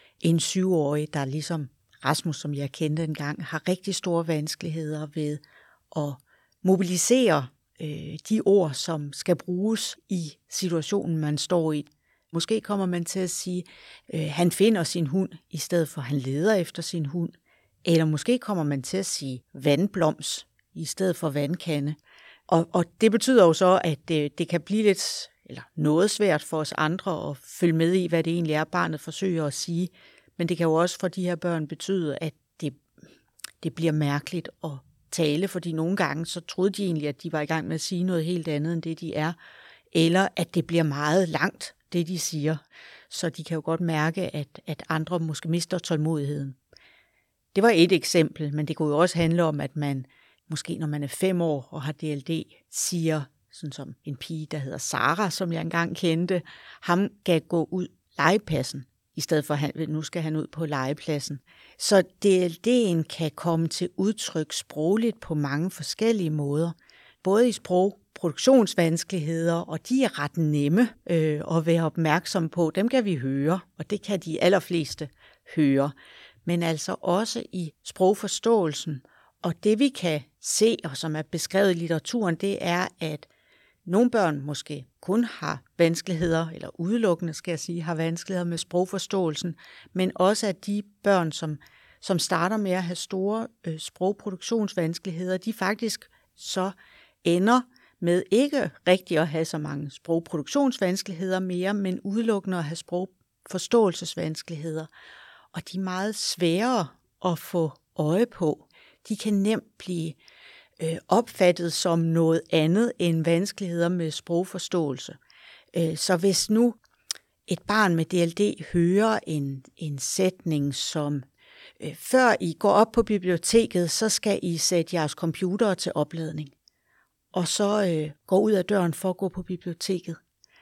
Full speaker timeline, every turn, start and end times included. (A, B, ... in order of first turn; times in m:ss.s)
0:00.2-0:22.0 A
0:22.5-0:32.8 A
0:33.6-0:39.4 A
0:39.9-0:46.6 A
0:47.5-1:15.9 A
1:16.4-1:23.3 A
1:23.8-1:44.9 A
1:45.5-1:50.2 A
1:50.8-1:55.2 A
1:55.7-1:56.8 A
1:57.5-2:01.2 A
2:01.8-2:06.5 A
2:07.3-2:10.2 A